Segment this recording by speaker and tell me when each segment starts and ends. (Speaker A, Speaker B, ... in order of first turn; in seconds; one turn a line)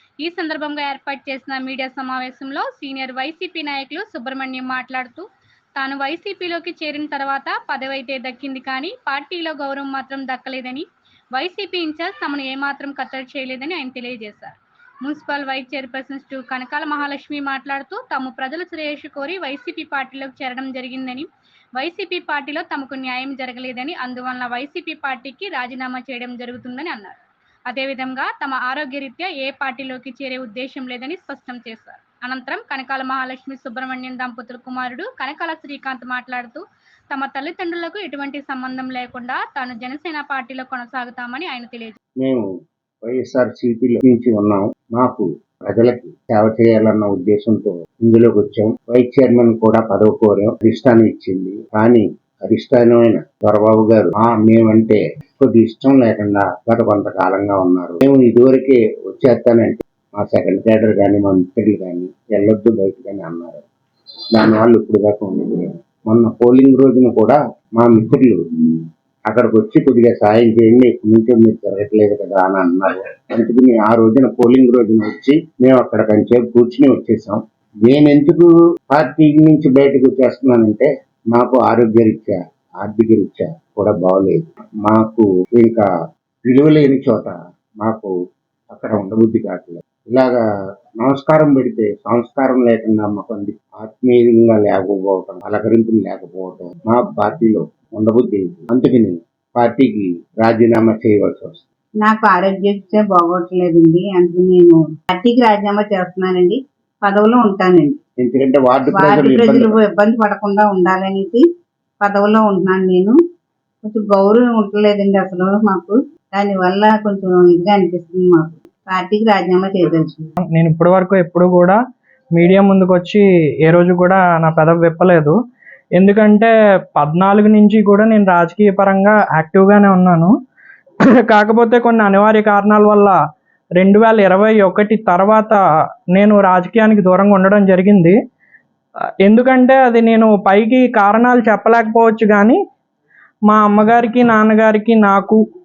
Speaker A: 0.2-27.2
Speaker A: 27.7-42.0
Speaker B: 42.2-42.5
Speaker B: 43.0-63.6
Speaker B: 64.3-85.9
Speaker B: 86.5-88.1
Speaker B: 88.7-90.4
Speaker B: 91.0-101.6
Speaker C: 102.0-108.0
Speaker B: 108.2-109.8
Speaker C: 108.9-111.4
Speaker C: 112.0-113.2
Speaker C: 113.8-120.3
Speaker D: 120.4-121.8
Speaker D: 122.3-125.4
Speaker D: 126.0-130.3
Speaker D: 131.3-133.2
Speaker D: 133.8-135.6
Speaker D: 136.2-138.2
Speaker D: 139.2-142.6
Speaker D: 143.5-145.4